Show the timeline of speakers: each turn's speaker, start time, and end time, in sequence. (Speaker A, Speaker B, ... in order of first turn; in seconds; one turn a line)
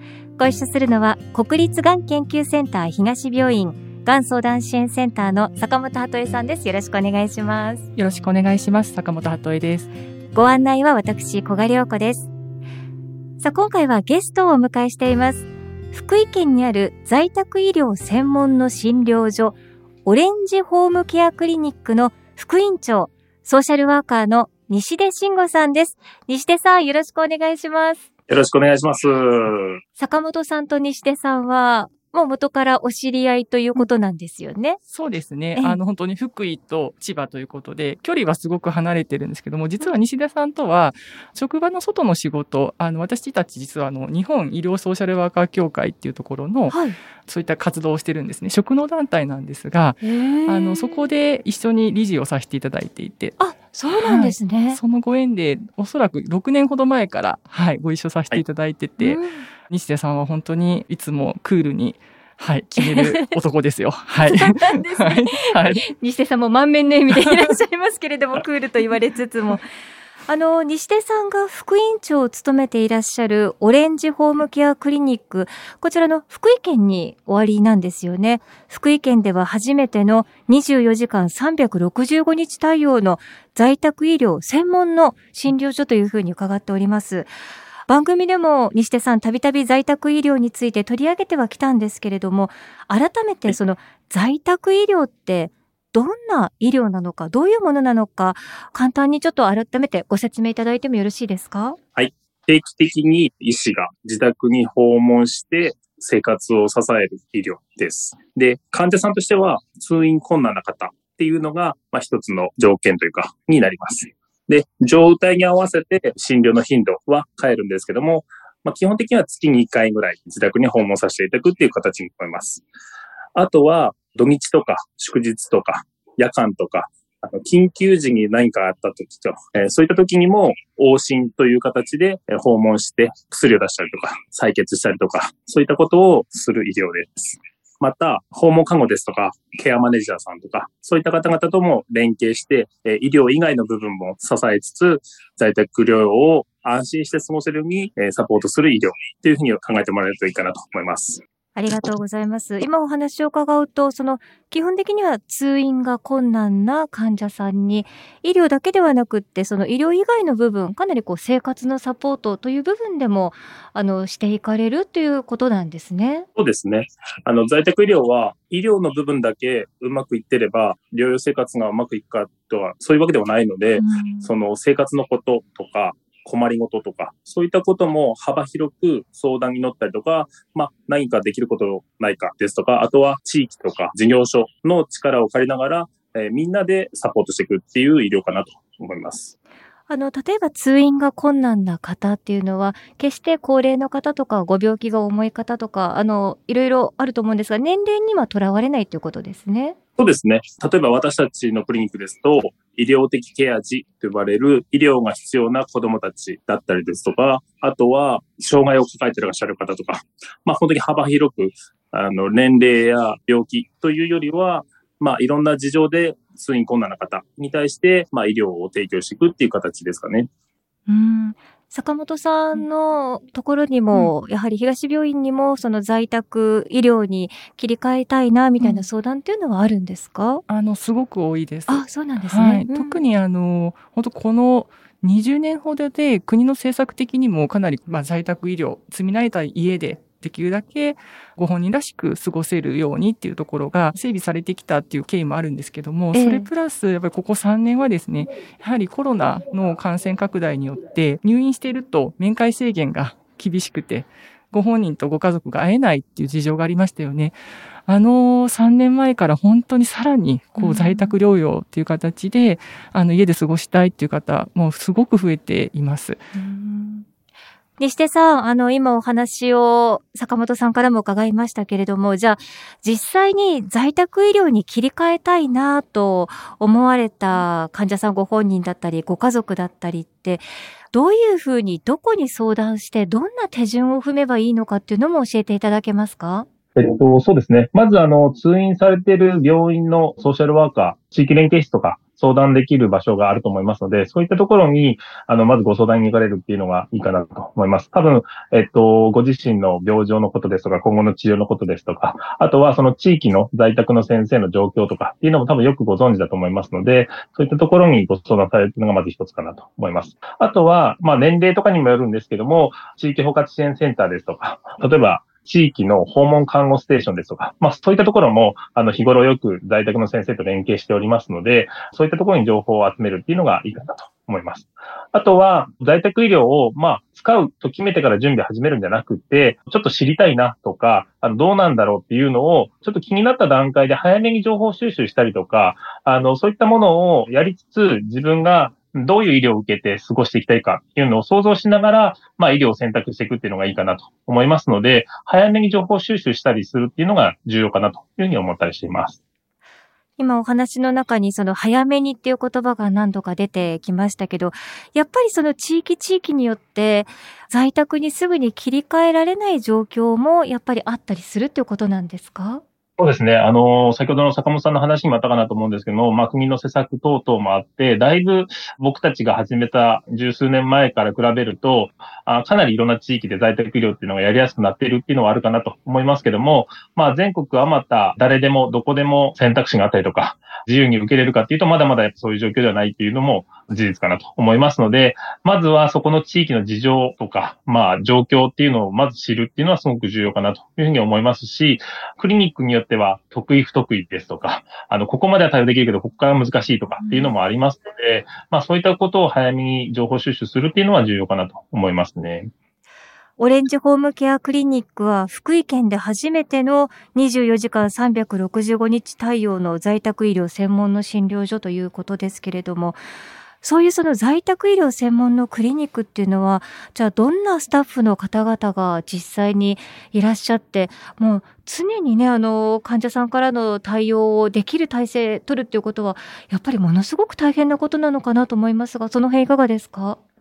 Speaker A: 0.4-7.9
Speaker B: 8.0-9.9
Speaker A: 10.3-12.3
Speaker A: 13.4-28.0
Speaker C: 28.3-29.8
Speaker A: 30.0-34.8
Speaker B: 34.9-53.4
Speaker A: 46.7-47.0
Speaker A: 50.0-51.1
Speaker A: 53.4-54.8
Speaker B: 53.9-65.9
Speaker A: 59.0-59.5
Speaker A: 62.8-63.4
Speaker A: 64.2-69.6
Speaker B: 67.1-67.5
Speaker A: 70.3-87.3
Speaker A: 87.9-101.8
Speaker C: 102.0-122.6
Speaker C: 123.3-151.2
Speaker A: 151.5-166.3
Speaker C: 166.3-189.3
Speaker A: 173.8-174.3
Speaker A: 189.9-199.8
Speaker C: 200.0-220.3
Speaker A: 220.9-230.4
Speaker B: 228.6-228.9
Speaker B: 230.5-266.2
Speaker A: 231.7-233.0
Speaker A: 246.1-246.5
Speaker A: 260.6-261.1
Speaker A: 266.3-267.0
Speaker A: 267.8-286.4
Speaker C: 286.8-349.2
Speaker A: 350.2-362.6
Speaker C: 363.0-402.5
Speaker A: 397.0-397.3
Speaker A: 403.4-413.0
Speaker A: 413.6-430.2